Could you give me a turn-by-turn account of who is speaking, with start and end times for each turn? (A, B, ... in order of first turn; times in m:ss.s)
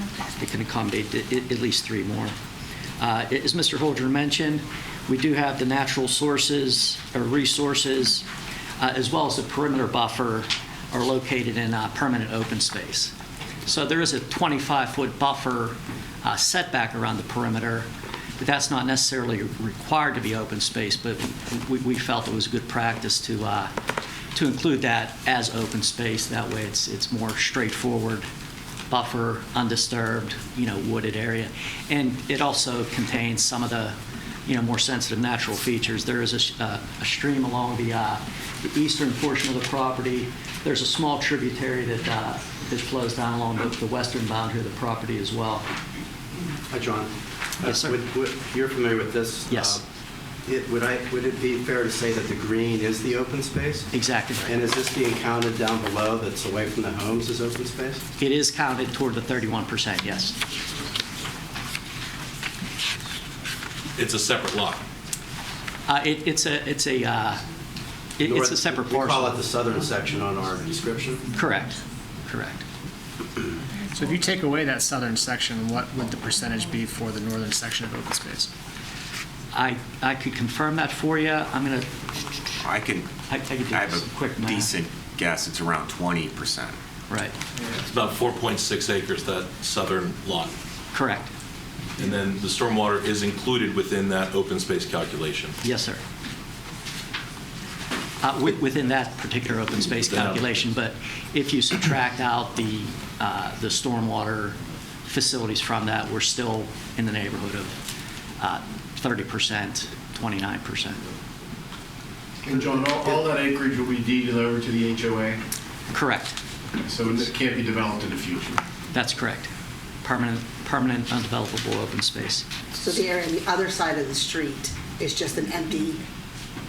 0:00.4-0:02.3 A
0:03.0-0:08.2 A
0:08.8-0:13.1 A
0:13.6-0:17.9 A
0:18.4-0:23.7 A
0:24.3-0:28.3 A
0:28.9-0:34.0 A
0:34.5-0:45.6 A
0:46.7-0:49.8 B
0:47.6-0:48.0 A
0:49.5-0:49.8 A
0:50.4-0:53.9 B
0:53.9-0:54.5 A
0:54.4-0:58.0 B
0:58.2-1:00.4 A
1:04.0-1:04.8 C
1:05.9-1:07.4 A
1:08.2-1:09.4 A
1:08.2-1:11.3 B
1:11.4-1:12.6 A
1:13.9-1:18.5 D
1:19.5-1:21.9 A
1:22.6-1:23.1 E
1:23.3-1:24.7 A
1:23.7-1:26.8 E
1:27.1-1:27.4 A
1:27.8-1:30.5 C
1:30.9-1:31.3 A
1:32.0-1:35.6 C
1:35.6-1:36.0 A
1:38.2-1:47.8 A
1:39.9-1:40.6 C
1:48.4-1:51.0 A
1:52.4-1:55.4 F
1:55.9-1:56.4 A
1:56.8-1:58.6 F
1:58.9-1:59.5 A
2:00.0-2:02.5 A
2:02.7-2:06.0 G